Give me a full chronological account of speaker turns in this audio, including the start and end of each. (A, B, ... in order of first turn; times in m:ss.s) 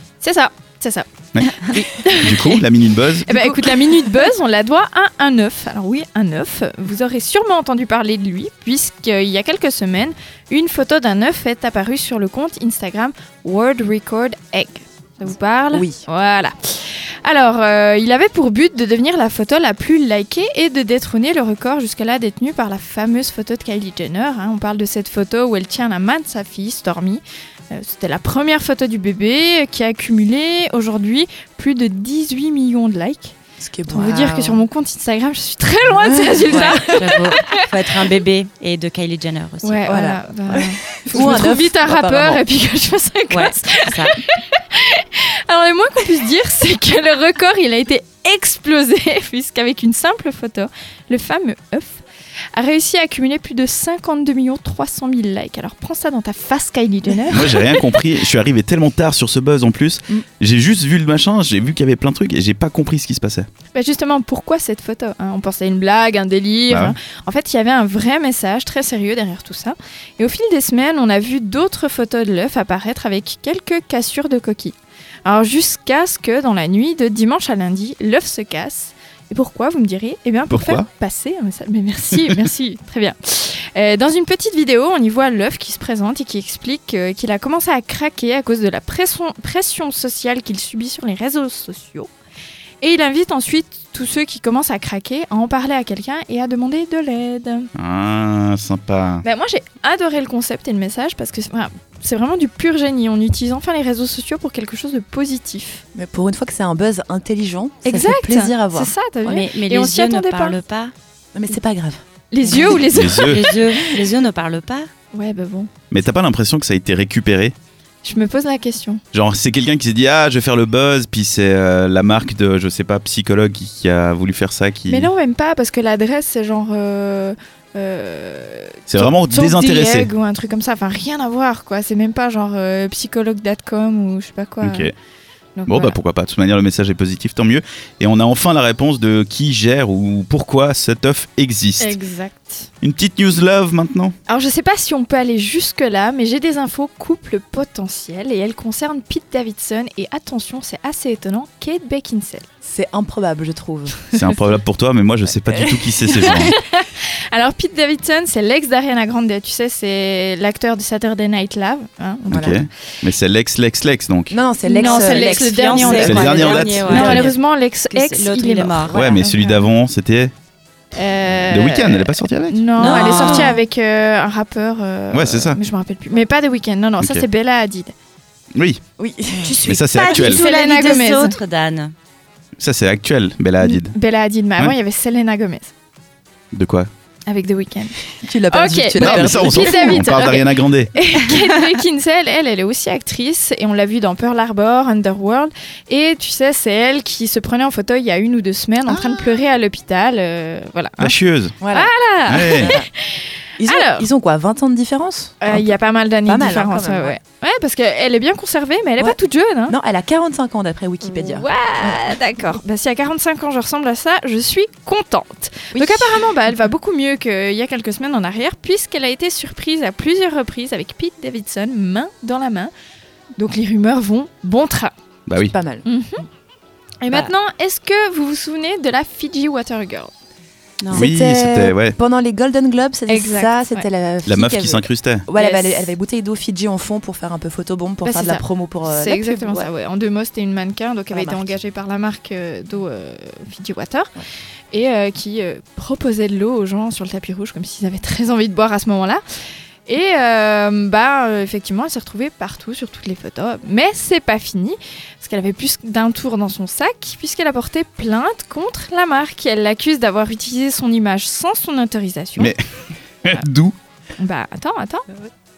0:00.2-0:01.1 A
0:01.4-0:03.3 B
0:01.7-0:02.6 A
0:03.2-0:33.4 A
0:15.7-0:16.0 C
0:33.6-0:34.6 C
0:33.9-0:37.7 A
0:36.0-0:36.7 C
0:36.5-0:40.2 D
0:39.6-0:57.8 A
0:39.9-0:42.4 C
0:41.2-0:41.4 D
0:43.3-0:44.2 D
0:57.3-1:03.5 B
1:03.7-1:32.1 A
1:06.7-1:07.0 B
1:20.5-1:20.9 B
1:32.8-1:37.7 A
1:37.8-1:39.2 B
1:39.2-1:45.8 A
1:46.0-1:48.9 C
1:47.8-1:50.6 A
1:49.2-1:50.9 D
1:51.3-1:52.8 C
1:52.3-1:53.9 A
1:52.5-1:54.9 D
1:52.9-1:53.4 B
1:55.1-1:55.7 A
1:55.9-1:57.6 B
1:58.0-1:59.0 A
1:59.1-2:05.1 B
2:04.9-2:14.9 A
2:08.9-2:10.1 B
2:14.6-2:14.9 B
2:15.6-2:16.0 A
2:15.7-2:22.0 B
2:21.8-2:22.7 A
2:22.8-2:24.2 B
2:24.3-2:32.5 A
2:32.6-2:34.0 C
2:34.1-2:36.6 B
2:36.2-2:42.7 A
2:42.3-2:44.4 B
2:44.3-2:47.4 C
2:44.7-2:49.7 A
2:44.8-2:47.3 D
2:46.0-2:47.2 B
2:47.9-2:49.2 D
2:48.9-2:50.3 B
2:50.9-2:57.9 A
2:51.5-2:53.4 B
2:52.8-2:53.6 D
2:55.1-2:55.6 B
2:57.0-2:57.2 B
2:58.5-2:58.8 B
2:59.0-2:59.6 C
2:59.3-3:01.9 D
2:59.6-3:00.4 B
3:00.1-3:01.4 A
3:02.6-3:04.0 B
3:03.6-3:05.7 A
3:06.5-3:06.9 B
3:07.3-3:21.2 A
3:08.2-3:10.1 C
3:09.0-3:10.9 B
3:21.0-3:21.6 B
3:21.6-3:21.9 C
3:21.7-3:24.1 A
3:22.3-3:22.8 B
3:22.6-3:22.9 C
3:23.6-3:25.7 C
3:25.4-3:29.8 A
3:26.2-3:27.2 C
3:29.7-3:32.2 C
3:31.1-3:42.7 A
3:35.7-3:36.3 C
3:43.4-3:44.9 A
3:45.3-3:45.5 B
3:45.5-3:45.8 C
3:45.8-3:46.2 A
3:47.0-3:50.1 A
3:50.8-3:51.1 D
3:50.9-3:59.7 C
3:50.9-3:52.0 B
3:53.1-3:53.9 A
3:54.3-3:55.2 B
3:55.3-3:56.0 A
3:58.0-4:04.2 A
4:01.1-4:01.5 C
4:04.7-4:09.2 A
4:09.9-4:22.5 A
4:23.2-4:23.7 B
4:24.2-4:25.1 A